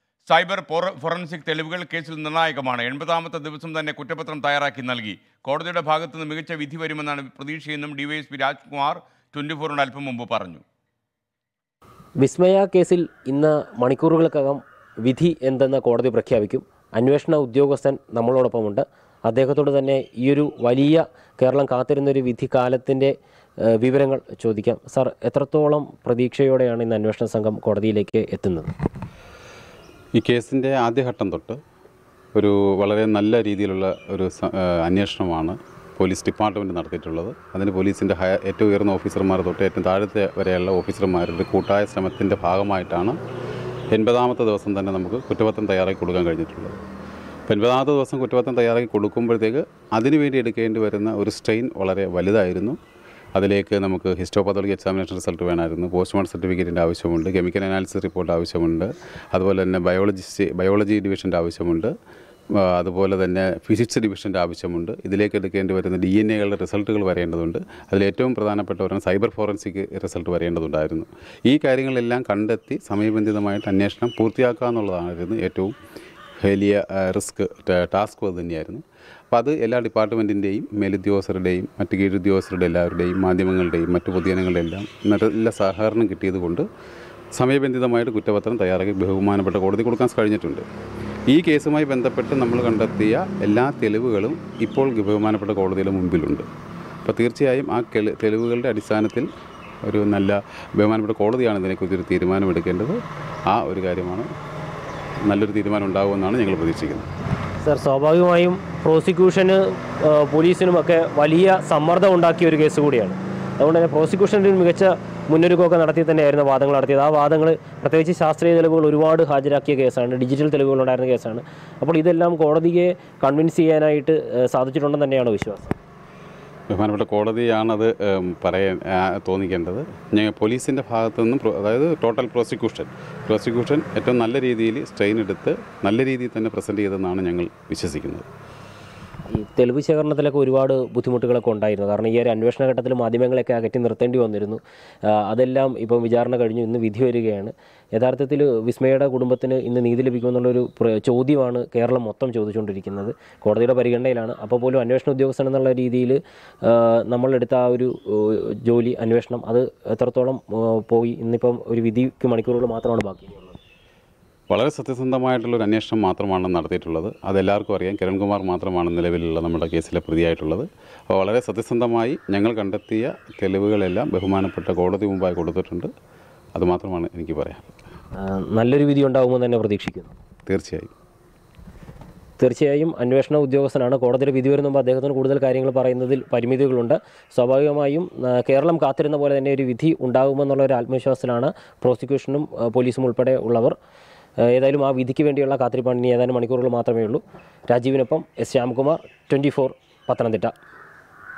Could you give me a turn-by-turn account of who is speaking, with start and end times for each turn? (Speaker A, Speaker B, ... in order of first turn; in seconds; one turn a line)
Speaker A: 0.3-10.6
Speaker B: 12.2-28.7
Speaker C: 30.2-31.6
Speaker C: 32.4-43.2
Speaker C: 43.9-46.8
Speaker C: 47.5-52.8
Speaker C: 53.4-61.9
Speaker C: 62.6-75.7
Speaker C: 76.4-86.7
Speaker C: 87.3-90.7
Speaker C: 91.3-96.5
Speaker C: 97.0-99.3
Speaker C: 99.8-103.0
Speaker C: 103.5-104.3
Speaker C: 105.3-107.1
Speaker B: 107.6-125.8
Speaker C: 126.7-138.2
Speaker B: 139.3-163.6
Speaker C: 164.5-175.9
Speaker C: 176.6-177.6
Speaker B: 178.2-180.1
Speaker C: 180.5-180.9
Speaker B: 182.4-193.8
Speaker B: 194.4-200.5